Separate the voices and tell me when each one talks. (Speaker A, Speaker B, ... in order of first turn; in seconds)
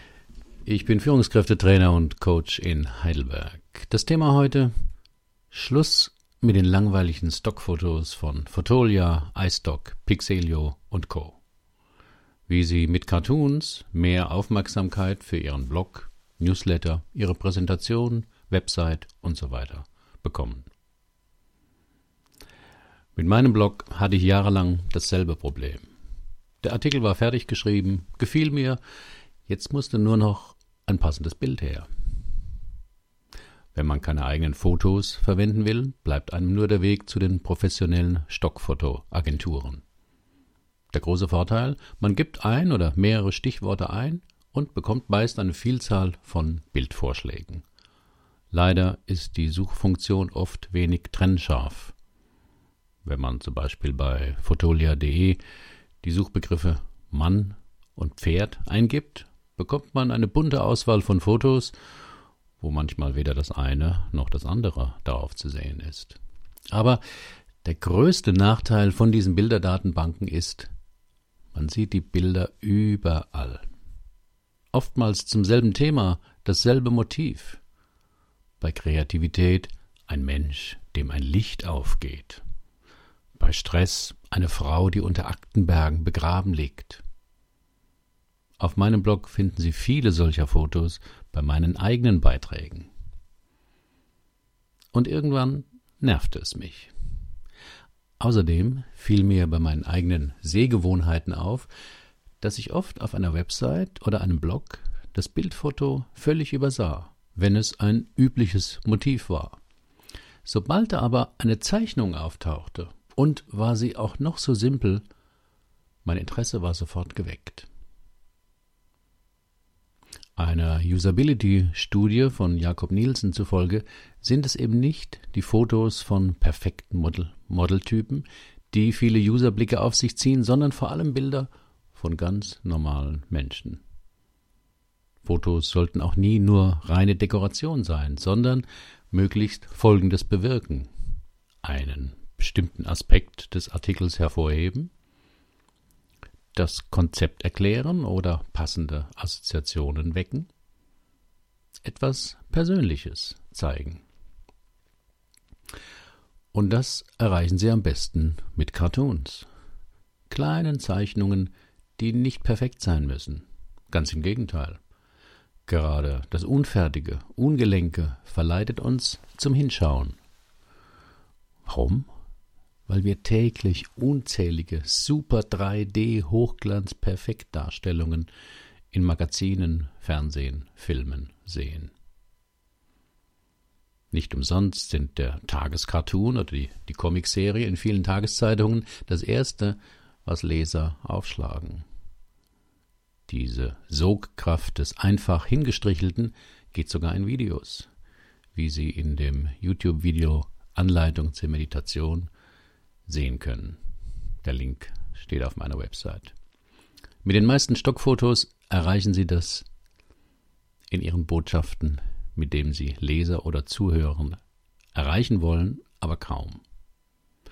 Speaker A: 0.7-4.7, 5.5-11.4, 12.5-20.7, 23.2-25.9, 26.6-28.8, 29.5-31.9, 33.7-39.8, 40.9-47.6, 48.5-52.0, 53.0-55.4, 56.0-61.8, 62.6-66.2, 66.7-67.0, 67.6-70.7, 71.5-73.7, 74.7-77.6, 78.6-82.4, 83.4-87.0, 88.6-92.9, 94.9-96.9, 98.2-101.7, 102.4-109.6, 110.5-115.0, 116.0-117.7, 120.4-133.8, 135.2-140.9, 141.6-144.9, 146.5-150.5, 151.8-154.0, 156.5-159.5, 160.3-164.8, 165.7-170.2, 171.7-172.1, 172.9-178.3, 178.9-181.9, 184.1-191.8, 193.3-197.9, 198.6-202.3, 203.1-203.8, 204.4-206.3, 207.2-209.7, 210.9-214.4, 214.9-216.6